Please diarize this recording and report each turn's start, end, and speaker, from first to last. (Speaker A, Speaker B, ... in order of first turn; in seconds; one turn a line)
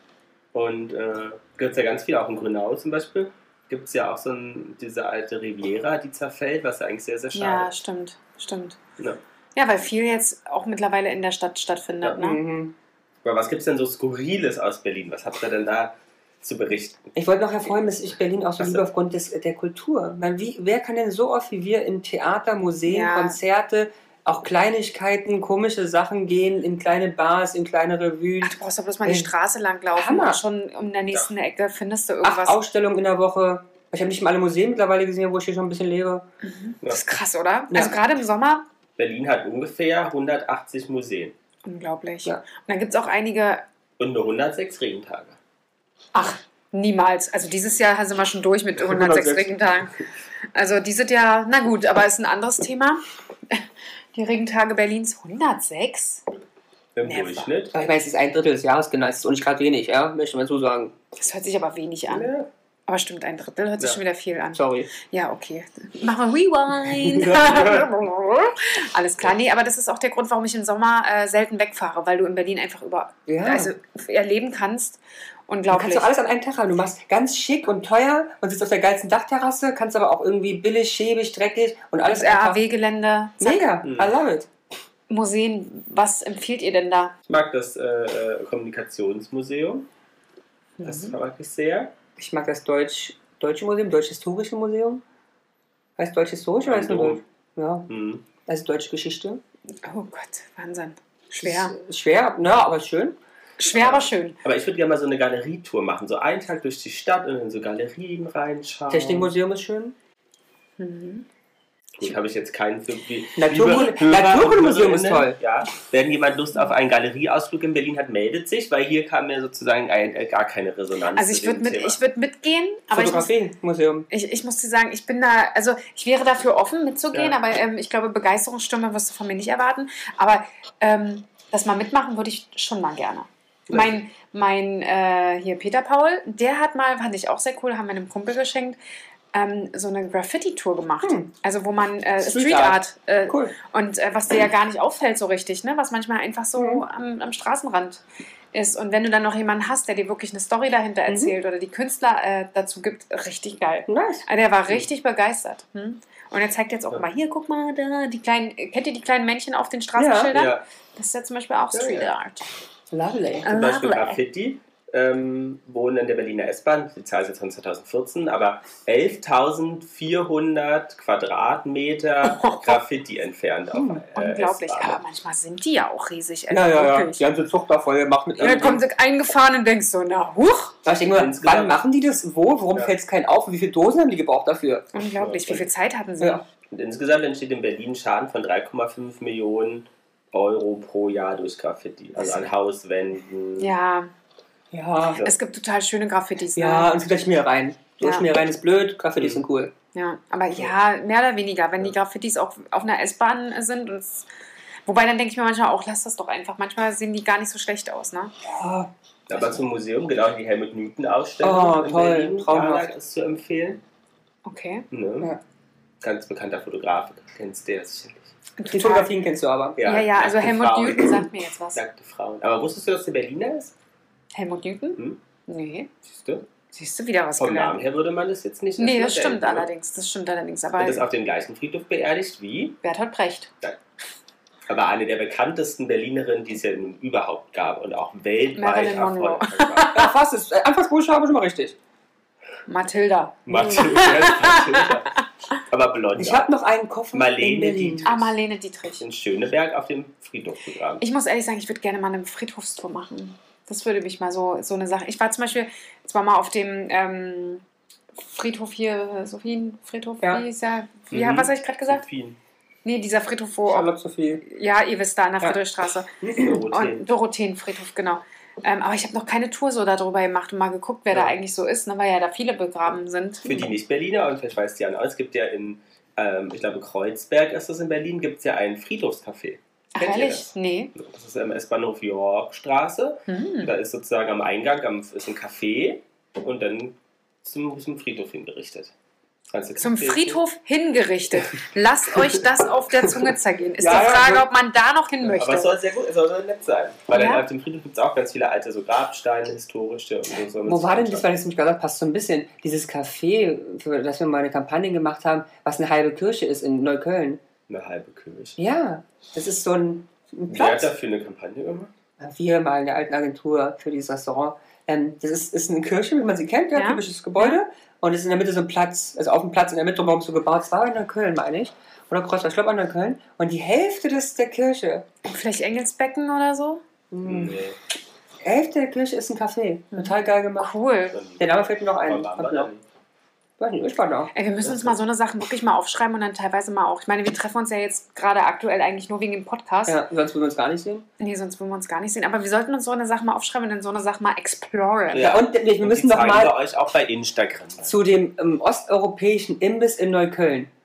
Speaker A: 0.5-7.7
Speaker B: 7.3-8.8
Speaker B: 9.6-12.4
Speaker C: 12.2-12.7
Speaker A: 13.2-17.1
Speaker C: 17.2-28.5
Speaker A: 18.6-18.9
Speaker B: 22.9-23.4
Speaker B: 28.4-32.6
Speaker C: 29.1-29.3
Speaker C: 29.9-30.4
Speaker C: 32.2-36.3
Speaker B: 36.4-38.6
Speaker A: 39.0-41.4
Speaker B: 41.6-43.6
Speaker A: 44.0-45.4
Speaker B: 46.1-49.9
Speaker C: 48.8-49.5
Speaker B: 50.5-53.6
Speaker B: 54.1-56.2
Speaker A: 57.0-57.8
Speaker B: 57.0-57.5
Speaker C: 57.7-60.9
Speaker B: 61.2-62.3
Speaker A: 62.1-62.5
Speaker B: 62.9-76.1
Speaker C: 64.5-64.9
Speaker A: 67.3-67.9
Speaker C: 73.3-73.7
Speaker C: 75.7-82.6
Speaker B: 82.1-83.7
Speaker C: 83.4-84.5
Speaker A: 83.9-84.1
Speaker B: 85.1-87.1
Speaker A: 87.3-89.9
Speaker B: 90.8-91.2
Speaker A: 90.8-91.9
Speaker C: 92.2-95.0
Speaker C: 96.0-97.9
Speaker A: 96.7-97.2
Speaker A: 97.9-98.3
Speaker C: 98.5-99.4
Speaker B: 99.9-101.8
Speaker C: 101.4-103.2
Speaker B: 103.6-104.4
Speaker A: 103.7-109.3
Speaker C: 108.9-110.0
Speaker B: 110.8-111.3
Speaker A: 112.0-122.0
Speaker C: 113.4-115.4
Speaker B: 121.2-123.3
Speaker C: 122.9-124.1
Speaker B: 124.1-138.8
Speaker B: 139.3-148.0
Speaker C: 141.0-141.3
Speaker C: 142.2-143.6
Speaker C: 146.6-146.8
Speaker B: 148.5-162.4
Speaker C: 151.1-151.3
Speaker C: 153.9-154.2
Speaker C: 160.0-160.3
Speaker A: 160.3-160.6
Speaker A: 161.7-162.1
Speaker C: 162.9-163.5
Speaker B: 163.4-164.2
Speaker A: 163.4-175.0
Speaker B: 172.2-172.8
Speaker C: 173.7-174.1
Speaker B: 174.2-177.2
Speaker C: 176.5-178.8
Speaker A: 178.4-178.7
Speaker B: 178.4-180.8
Speaker C: 180.8-184.9
Speaker A: 181.1-181.8
Speaker B: 184.9-186.4
Speaker A: 185.2-185.7
Speaker A: 186.7-193.7
Speaker B: 193.6-194.1
Speaker C: 194.7-195.2
Speaker B: 195.2-196.9
Speaker C: 196.6-199.7
Speaker B: 198.0-198.3
Speaker A: 199.2-199.4
Speaker B: 199.9-204.3
Speaker B: 204.9-208.3
Speaker C: 208.4-209.6
Speaker A: 209.3-213.8
Speaker C: 211.4-212.9
Speaker B: 214.4-214.9
Speaker A: 214.9-215.3
Speaker A: 216.0-218.3
Speaker B: 218.6-219.1
Speaker C: 218.7-219.8
Speaker A: 219.8-223.7
Speaker B: 219.8-221.8
Speaker B: 224.3-225.9
Speaker A: 226.1-226.5
Speaker B: 226.7-227.8
Speaker A: 227.4-229.7
Speaker B: 228.8-231.1
Speaker A: 230.8-232.8
Speaker B: 232.8-233.5
Speaker A: 234.7-240.0
Speaker B: 238.6-240.1
Speaker C: 239.9-241.8
Speaker B: 242.7-245.0
Speaker A: 243.5-246.5
Speaker C: 246.2-248.1
Speaker A: 247.1-248.3
Speaker B: 248.1-249.0
Speaker A: 249.0-251.0
Speaker B: 251.0-257.6
Speaker B: 258.2-262.0
Speaker A: 261.1-262.4
Speaker B: 262.9-263.9
Speaker C: 263.7-264.4
Speaker B: 264.4-273.7
Speaker C: 266.2-266.6
Speaker A: 266.4-267.1
Speaker A: 273.4-288.9
Speaker B: 279.9-280.9
Speaker B: 283.3-283.7
Speaker A: 289.5-290.4
Speaker B: 289.8-295.8
Speaker C: 293.8-294.5
Speaker A: 295.2-301.3
Speaker B: 297.1-297.4
Speaker C: 300.6-307.4
Speaker A: 307.7-308.6
Speaker C: 308.6-310.9
Speaker A: 310.5-311.9
Speaker C: 312.2-325.1
Speaker B: 316.8-317.6
Speaker B: 325.2-326.8
Speaker C: 327.1-327.6
Speaker A: 327.2-327.8
Speaker C: 328.4-330.7
Speaker B: 329.9-331.2
Speaker A: 331.1-332.8
Speaker C: 331.4-332.7
Speaker C: 333.6-334.3
Speaker B: 334.3-340.0
Speaker A: 334.6-334.9
Speaker C: 339.9-341.1
Speaker B: 341.2-345.4
Speaker A: 345.1-348.0
Speaker C: 345.2-346.6
Speaker C: 347.8-350.7